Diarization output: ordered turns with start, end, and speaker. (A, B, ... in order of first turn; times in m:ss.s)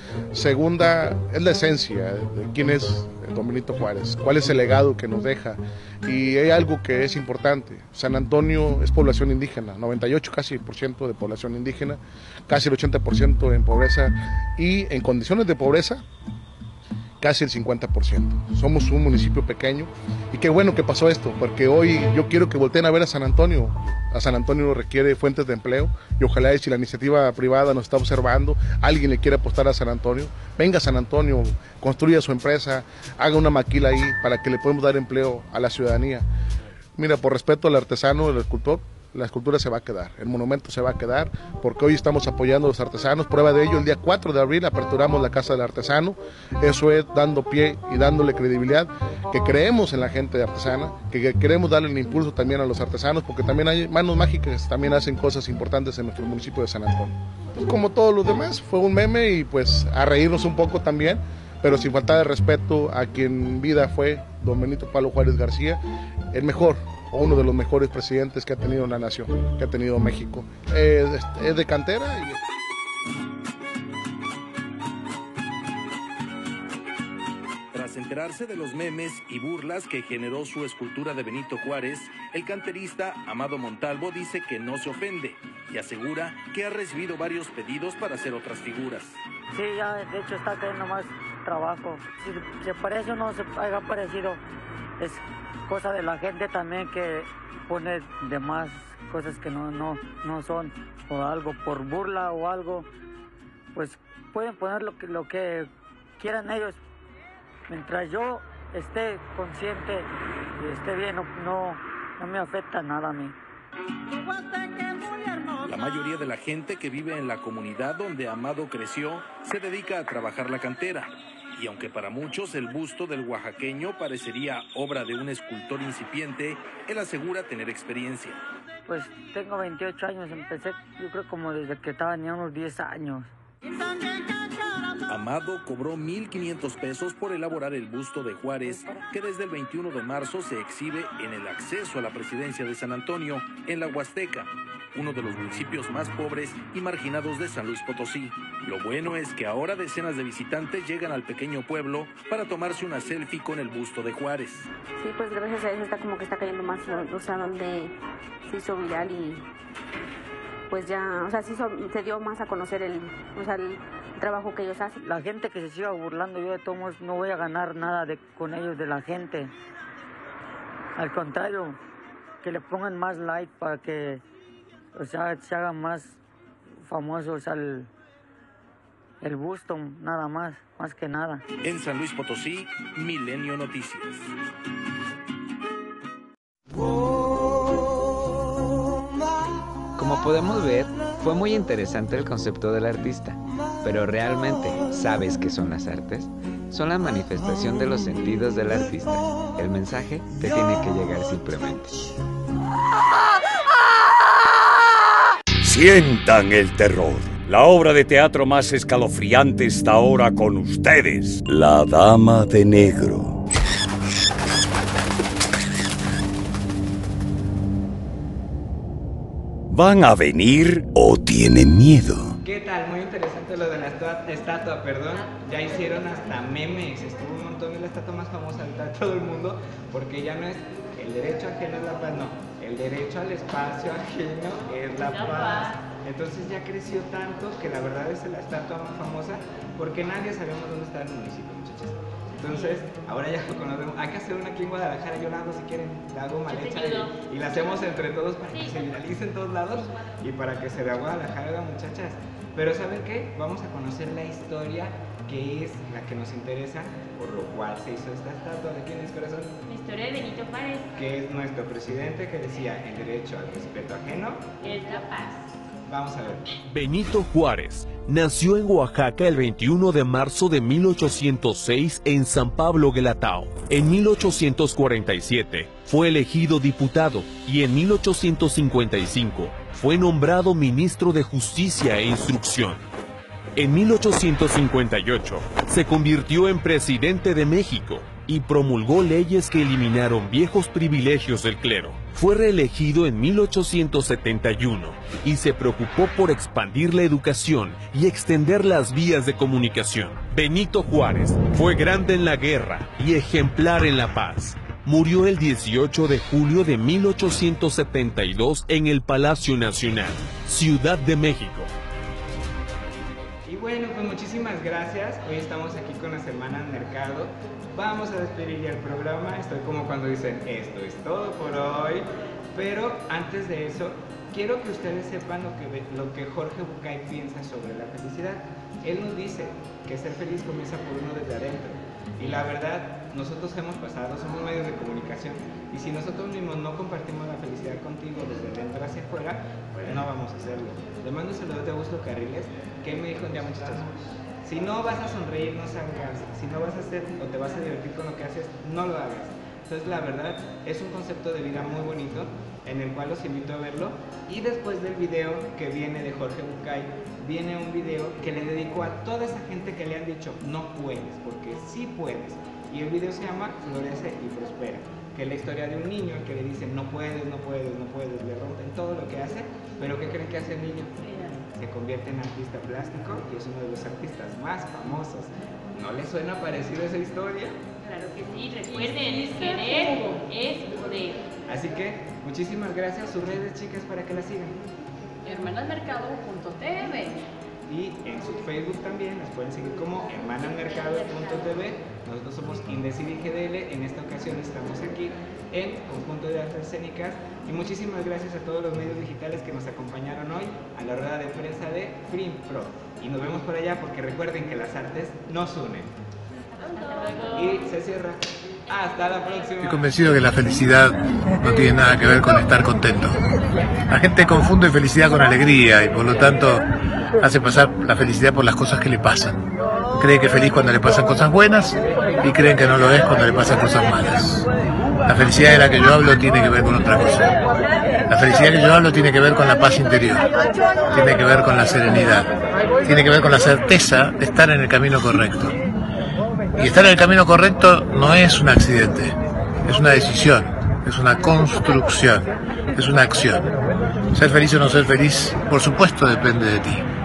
0:00.3-0:16.0 A
0:17.2-0:36.2 A
0:37.0-1:05.8 A
1:06.3-1:12.4 A
1:17.7-1:29.2 B
1:29.5-1:34.4 C
1:35.0-1:42.9 C
1:43.7-1:45.7 C
1:46.2-1:46.8 C
1:47.7-1:53.3 C
1:55.6-2:08.4 B
2:08.9-2:13.3 C
2:15.1-2:34.7 B
2:35.0-2:37.9 D
2:38.4-2:39.4 D
2:40.7-2:45.0 D
2:45.0-2:49.5 C
2:51.0-2:51.8 C
2:52.4-2:54.2 C
2:55.0-2:56.2 C
2:56.8-2:57.9 C
2:59.2-3:01.4 C
3:01.6-3:04.3 B
3:10.0-3:21.9 E
3:25.6-3:33.4 F
3:39.7-3:42.4 F
3:42.4-4:19.6 G
3:55.0-3:55.8 H
4:06.5-4:07.6 H
4:19.6-4:20.9 H
4:20.9-4:24.4 G
4:24.6-4:25.5 H
4:25.9-4:26.5 G
4:26.7-4:42.8 I
4:43.6-5:11.7 I
5:13.4-6:10.9 G
6:11.1-6:11.4 J
6:11.5-6:17.6 G
6:17.8-6:21.3 H
6:18.7-6:20.2 J
6:21.5-6:24.6 G
6:25.2-6:27.2 J
6:27.7-6:45.9 G
6:46.8-6:47.4 H
6:47.3-6:50.1 G
6:49.6-6:53.2 K
6:53.9-6:56.7 K
6:57.2-6:59.4 K
6:59.9-7:04.4 K
7:05.0-7:07.3 K
7:08.1-7:10.3 K
7:10.9-7:15.6 K
7:16.6-7:23.5 K
7:24.1-7:26.8 K